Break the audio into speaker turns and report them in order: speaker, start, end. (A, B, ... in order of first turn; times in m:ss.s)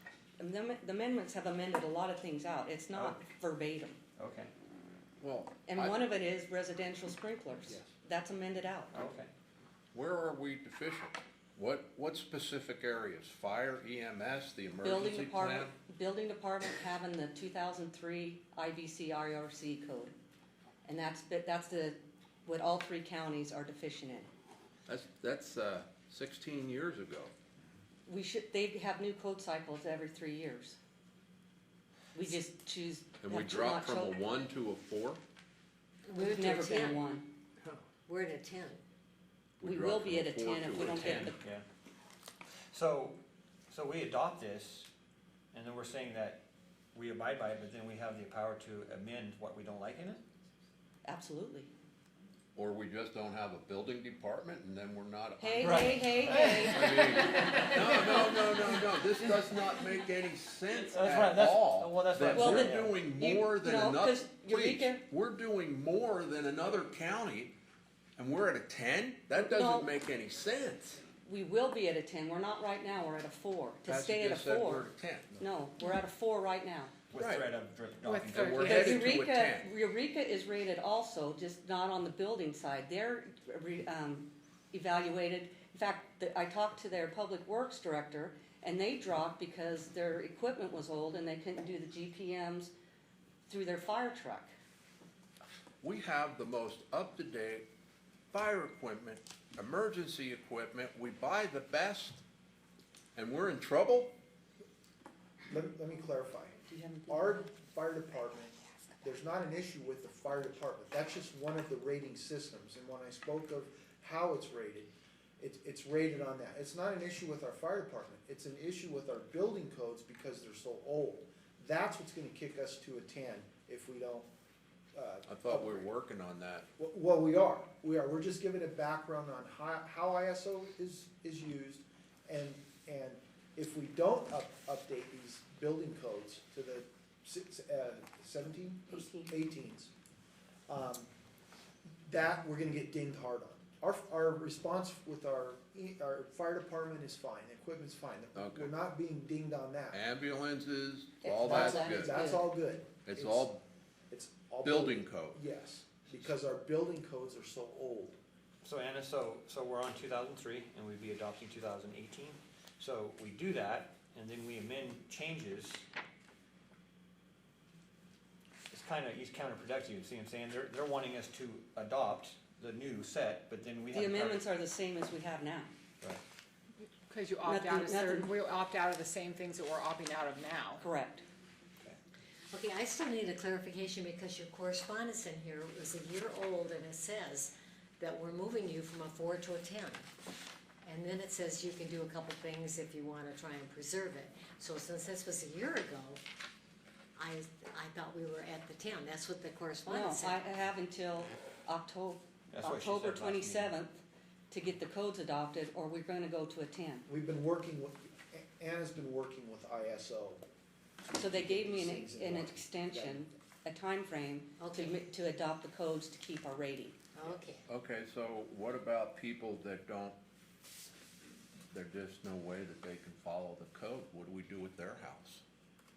0:00.4-0:04.0 A
0:04.2-0:04.5 B
0:05.2-0:06.0 C
0:05.6-0:08.9 A
0:08.9-0:09.3 B
0:09.9-0:15.7 C
0:14.8-0:20.1 A
0:20.8-0:24.3 A
0:24.9-0:27.3 C
0:28.0-0:30.8 A
0:32.1-0:34.2 A
0:33.2-0:35.2 C
0:36.0-0:37.0 D
0:36.2-0:37.3 A
0:38.0-0:38.8 D
0:39.6-0:41.4 C
0:39.6-0:41.4 A
0:40.9-0:41.7 B
0:42.7-0:44.9 B
0:45.5-0:50.2 B
0:51.0-0:51.7 A
0:52.6-1:07.6 C
0:55.4-0:58.2 A
0:55.6-0:56.8 B
1:00.7-1:03.0 B
1:02.3-1:05.0 A
1:08.2-1:11.0 C
1:09.4-1:09.9 A
1:11.2-1:14.9 A
1:13.9-1:15.4 C
1:15.4-1:16.9 A
1:17.1-1:18.9 B
1:17.2-1:17.5 C
1:18.0-1:19.0 E
1:18.3-1:19.7 C
1:18.6-1:32.7 A
1:33.5-1:34.5 A
1:35.8-1:37.7 C
1:38.3-1:42.2 C
1:43.1-1:44.2 C
1:45.5-2:04.3 F
1:46.7-1:47.5 A
2:04.9-2:05.9 F
2:05.3-2:06.7 C
2:06.8-2:19.9 F
2:18.9-2:19.3 A
2:20.7-2:21.1 F
2:22.0-2:30.0 F
2:28.3-2:28.7 C
2:29.9-2:32.2 C
2:31.2-2:32.5 A
2:31.4-2:33.5 F
2:33.1-2:33.6 C
2:34.1-2:38.2 F
2:34.6-2:35.4 C
2:38.6-2:45.8 B
2:48.7-2:54.4 B
2:53.9-2:55.7 A
2:57.1-3:00.9 E
2:57.5-2:58.3 A
3:00.8-3:01.2 A
3:02.5-3:10.1 D
3:10.8-3:16.2 D
3:17.2-3:20.4 D
3:19.9-3:27.1 A
3:22.5-3:23.8 B
3:27.1-3:30.4 F
3:31.1-3:37.0 A
3:31.2-3:33.3 F
3:34.6-3:35.0 D
3:37.2-3:37.6 D
3:37.7-3:40.2 C
3:41.7-3:45.4 C